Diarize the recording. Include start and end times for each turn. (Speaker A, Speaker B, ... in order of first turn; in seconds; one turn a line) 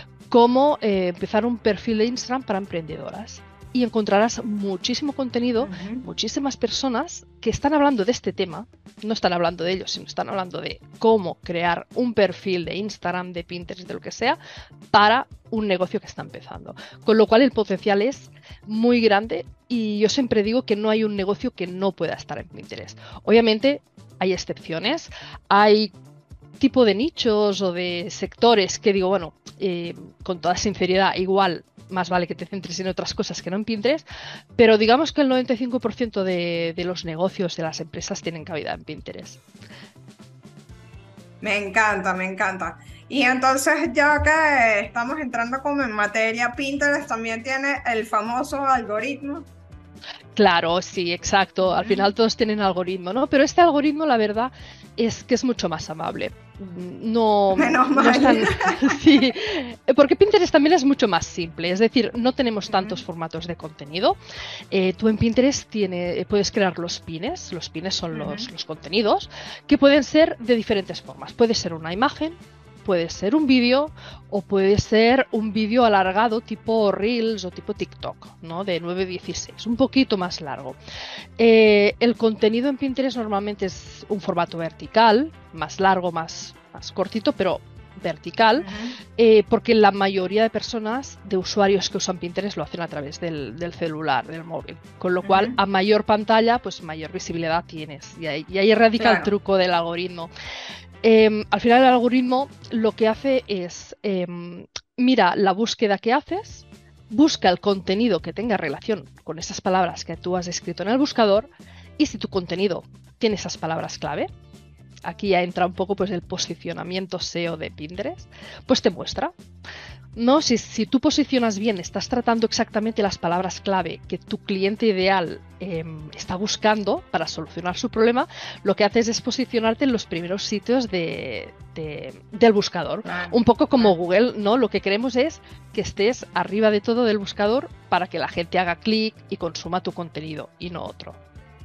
Speaker A: 0.3-14.4
Speaker B: 5.6-6.0
Speaker A: 14.9-25.9
Speaker A: 26.6-34.0
Speaker A: 34.6-39.4
Speaker B: 41.4-49.5
Speaker A: 50.4-64.2
Speaker B: 51.6-52.0
Speaker B: 57.5-59.0
Speaker B: 62.7-63.0
Speaker A: 64.7-80.8
Speaker B: 68.1-68.5
Speaker A: 81.4-100.3
Speaker B: 88.6-89.0
Speaker B: 95.2-95.6
Speaker B: 99.0-99.3
Speaker A: 101.0-114.3
Speaker A: 115.0-119.3
Speaker A: 120.2-141.2
Speaker B: 133.0-133.9